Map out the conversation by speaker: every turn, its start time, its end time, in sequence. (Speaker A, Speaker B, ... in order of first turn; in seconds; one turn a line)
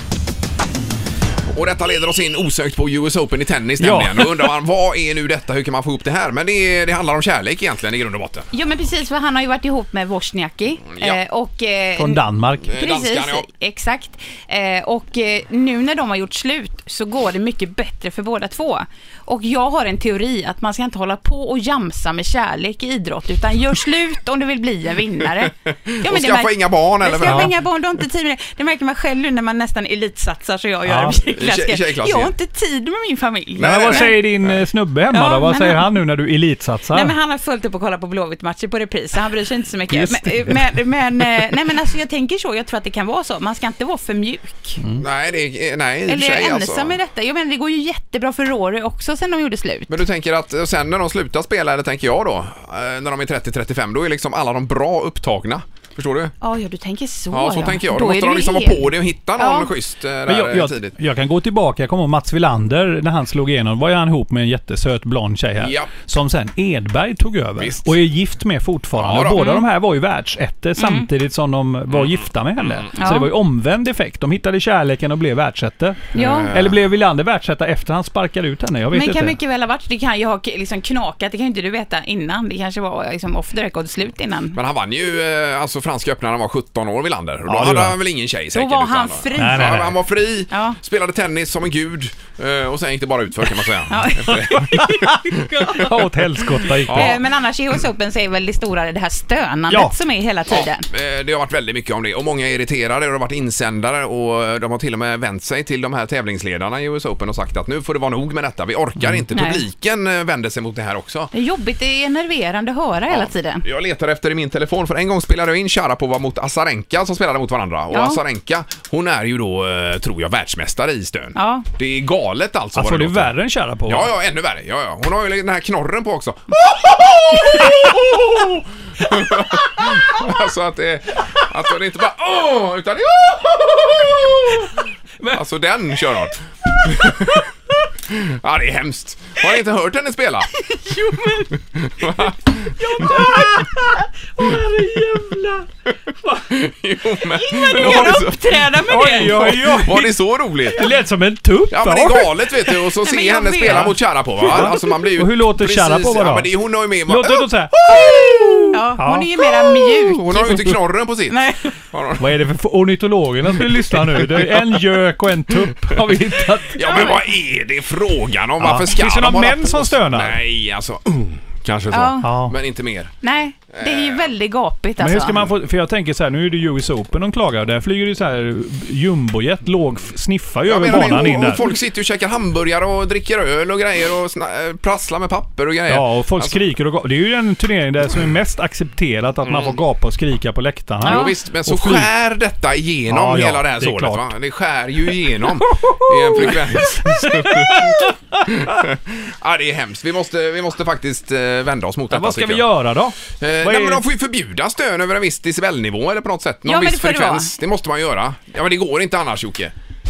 Speaker A: 1.5-8.5
Speaker B: 3.8-4.5
Speaker C: 8.5-34.2
Speaker B: 12.0-12.7
Speaker A: 12.6-13.4
Speaker A: 26.0-27.5
Speaker B: 27.2-27.5
Speaker B: 30.9-31.1
Speaker A: 31.3-32.3
Speaker A: 33.5-34.5
Speaker B: 33.6-37.1
Speaker C: 35.1-36.0
Speaker C: 36.9-44.8
Speaker B: 39.9-40.6
Speaker B: 44.8-45.0
Speaker A: 45.0-47.0
Speaker C: 46.1-50.0
Speaker A: 49.9-56.3
Speaker C: 56.4-59.7
Speaker A: 57.3-60.9
Speaker B: 60.2-79.3
Speaker A: 65.6-65.9
Speaker A: 67.6-67.9
Speaker A: 69.0-69.4
Speaker C: 69.3-69.6
Speaker C: 70.8-71.1
Speaker A: 71.9-72.9
Speaker C: 72.9-73.3
Speaker C: 76.1-76.5
Speaker A: 76.1-76.8
Speaker C: 78.9-84.6
Speaker A: 84.5-95.9
Speaker B: 87.5-88.0
Speaker C: 88.5-89.8
Speaker B: 89.3-89.9
Speaker C: 90.5-90.8
Speaker C: 93.9-95.9
Speaker B: 94.8-97.2
Speaker A: 96.8-97.2
Speaker C: 96.9-100.9
Speaker A: 100.5-111.3
Speaker C: 109.3-109.6
Speaker C: 111.3-113.6
Speaker A: 113.1-123.3
Speaker C: 117.9-118.2
Speaker C: 121.3-121.7
Speaker B: 122.7-124.1
Speaker A: 123.9-134.8
Speaker B: 129.1-129.8
Speaker A: 135.3-137.4
Speaker A: 138.1-140.5
Speaker C: 140.7-141.5
Speaker A: 141.7-143.1
Speaker B: 142.8-145.7
Speaker A: 146.4-150.8
Speaker C: 147.4-149.7
Speaker B: 147.7-148.2
Speaker B: 148.8-150.1
Speaker B: 150.7-152.5
Speaker A: 151.7-158.8
Speaker C: 152.9-154.0
Speaker B: 153.7-156.5
Speaker B: 157.1-159.3
Speaker C: 158.7-160.6
Speaker A: 160.0-161.4
Speaker C: 161.3-161.7
Speaker A: 161.9-162.4
Speaker B: 162.2-167.1
Speaker A: 163.6-164.8
Speaker A: 166.7-173.1
Speaker C: 166.8-167.2
Speaker B: 168.6-170.4
Speaker C: 171.9-172.3
Speaker B: 172.2-172.5
Speaker C: 173.2-175.4
Speaker A: 173.7-174.3
Speaker B: 175.0-181.6
Speaker A: 180.7-186.6
Speaker C: 180.9-181.7
Speaker B: 185.9-192.1
Speaker A: 189.4-189.8
Speaker A: 191.0-202.7
Speaker C: 191.0-191.3
Speaker B: 193.1-194.3
Speaker B: 195.6-198.8
Speaker B: 202.1-204.0
Speaker A: 203.3-209.7
Speaker C: 206.6-207.5